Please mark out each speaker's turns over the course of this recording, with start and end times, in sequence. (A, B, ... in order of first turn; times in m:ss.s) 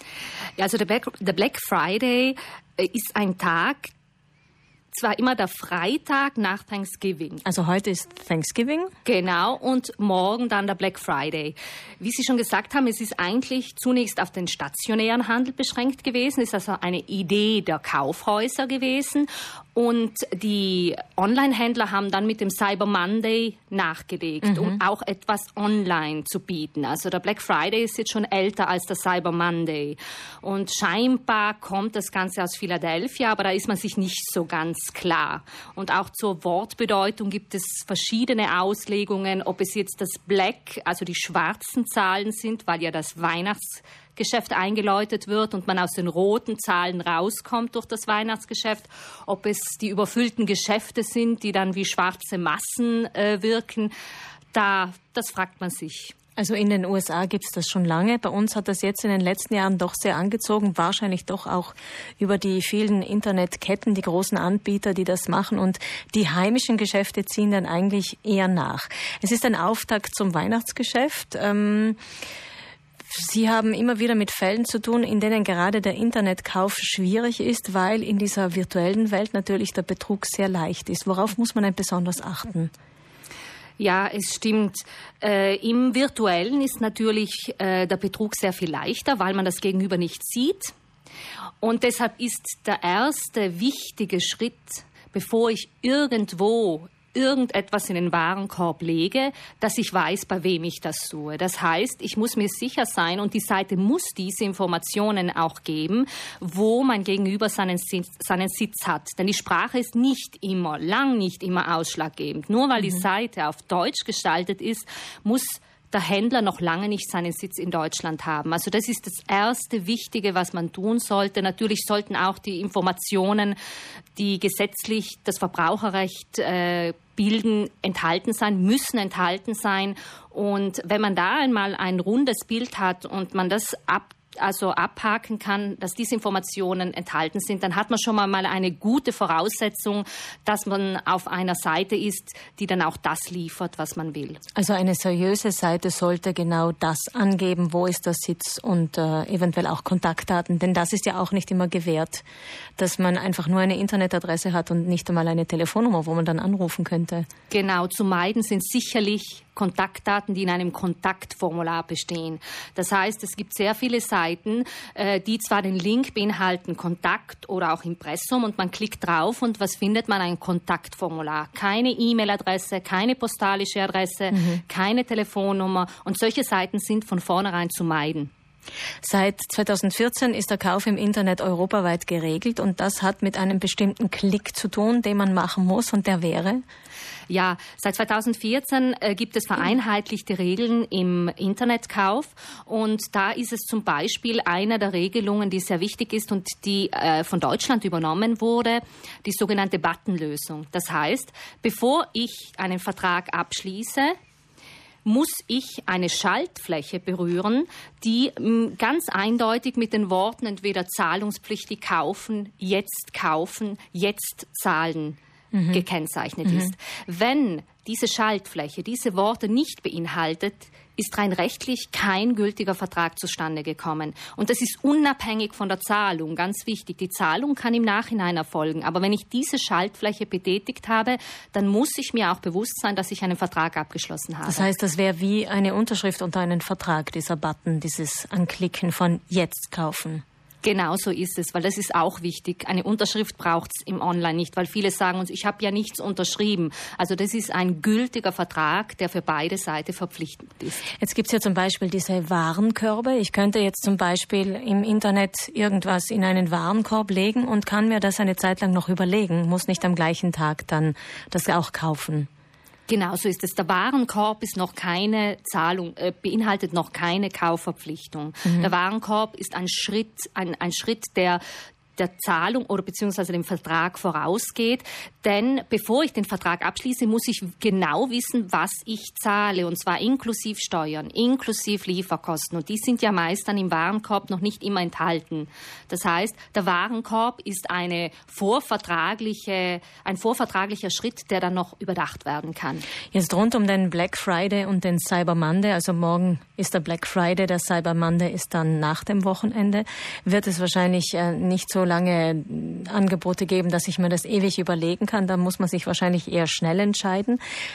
0:00.6-0:03.9 A
0:04.9-0:07.4 A
0:07.4-0:08.9 B
0:09.0-0:53.9 A
0:54.5-0:56.2 A
0:56.4-1:12.0 B
1:13.1-1:22.7 B
1:23.8-1:30.7 A
1:31.6-2:03.6 A
2:04.2-2:24.4 A
2:24.6-2:32.2 B
2:32.8-2:37.3 B
2:37.5-2:58.3 A
2:54.3-2:54.6 B
2:59.0-3:06.6 B
3:07.3-3:24.2 A
3:25.0-3:35.2 A
3:35.5-3:35.8 B
3:35.7-3:54.7 A
3:54.5-4:00.2 B
4:00.6-4:10.8 A
4:11.0-4:22.3 B
4:22.9-4:31.4 A
4:32.0-4:52.8 A
4:53.1-5:07.4 B